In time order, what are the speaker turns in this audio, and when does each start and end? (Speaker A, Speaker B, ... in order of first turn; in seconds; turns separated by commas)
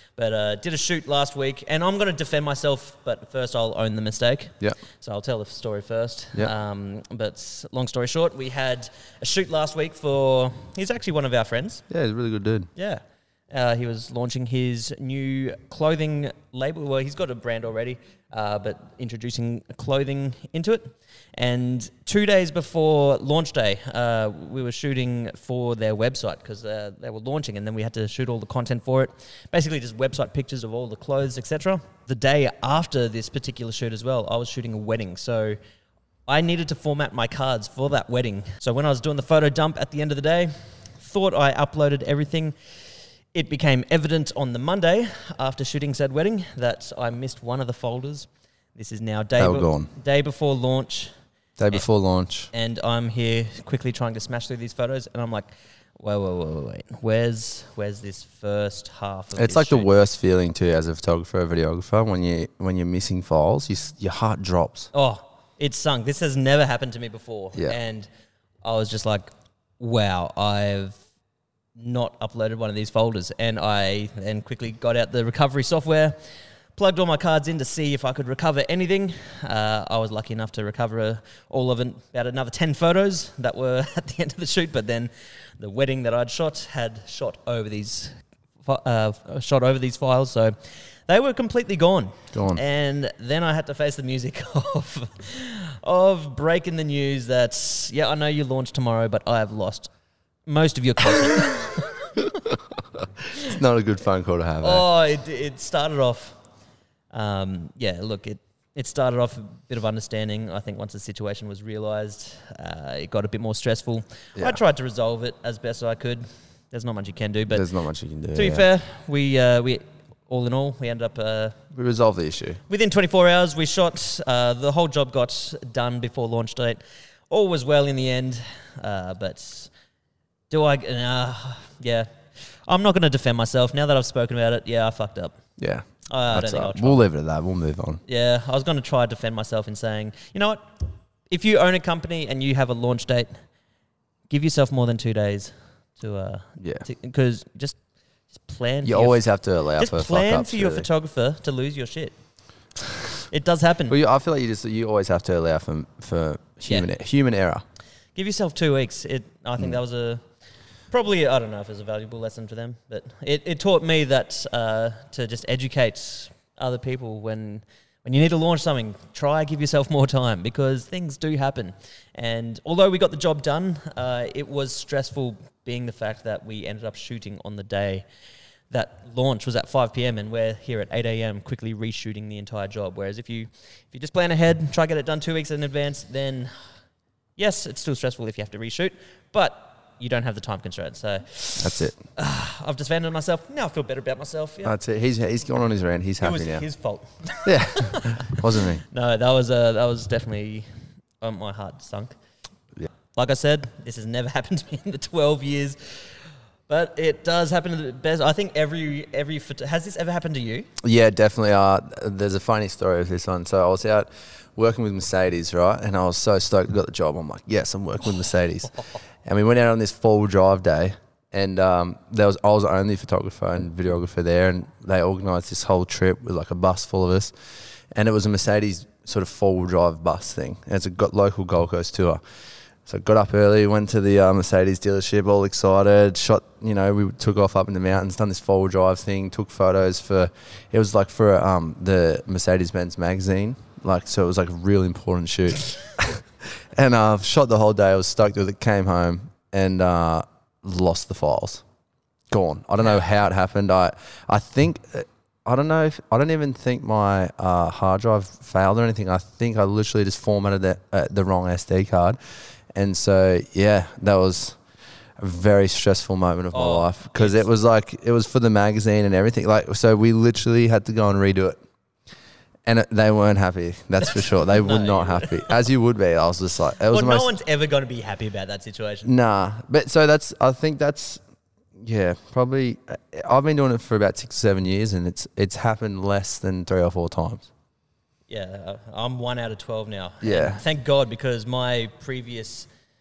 Speaker A: 0.2-11.8, Speaker B: 11.9-12.7, Speaker A: 12.8-35.6, Speaker A: 36.3-42.5, Speaker A: 43.3-51.1, Speaker B: 49.4-49.9, Speaker B: 51.6-52.5, Speaker A: 52.5-60.0, Speaker B: 59.4-64.9, Speaker A: 64.9-68.1, Speaker A: 68.6-71.0, Speaker A: 71.8-76.2, Speaker A: 76.8-90.5, Speaker A: 91.1-99.9, Speaker B: 92.3-92.6, Speaker A: 100.5-102.2, Speaker B: 102.2-104.8, Speaker A: 104.6-106.3, Speaker A: 107.1-117.6, Speaker B: 117.5-118.7, Speaker A: 118.3-121.6, Speaker B: 121.7-122.6, Speaker A: 122.7-129.7, Speaker A: 130.5-132.1, Speaker A: 132.7-135.3, Speaker B: 135.6-138.0, Speaker A: 136.1-137.0, Speaker A: 138.1-140.6, Speaker A: 141.3-143.3, Speaker A: 144.3-147.8, Speaker B: 146.6-146.8, Speaker A: 148.3-149.2, Speaker B: 148.8-150.9, Speaker A: 149.8-152.1, Speaker A: 153.3-153.9, Speaker B: 153.9-157.6, Speaker A: 158.1-160.2, Speaker A: 160.9-178.0, Speaker A: 178.7-186.5, Speaker A: 187.4-194.7, Speaker B: 191.6-192.0, Speaker B: 194.6-196.6, Speaker A: 196.2-200.7, Speaker B: 197.4-198.8, Speaker A: 201.2-202.1, Speaker A: 203.1-206.1, Speaker A: 206.7-210.7, Speaker B: 210.8-218.7, Speaker B: 219.2-227.3, Speaker B: 227.9-232.2, Speaker B: 232.8-251.6, Speaker B: 252.3-262.2, Speaker B: 262.7-264.6, Speaker B: 265.2-271.6, Speaker A: 266.5-267.5, Speaker B: 272.6-277.3, Speaker A: 274.1-275.5, Speaker A: 276.9-279.1, Speaker B: 279.0-281.2, Speaker B: 281.8-287.5, Speaker A: 288.3-292.7, Speaker B: 290.2-290.6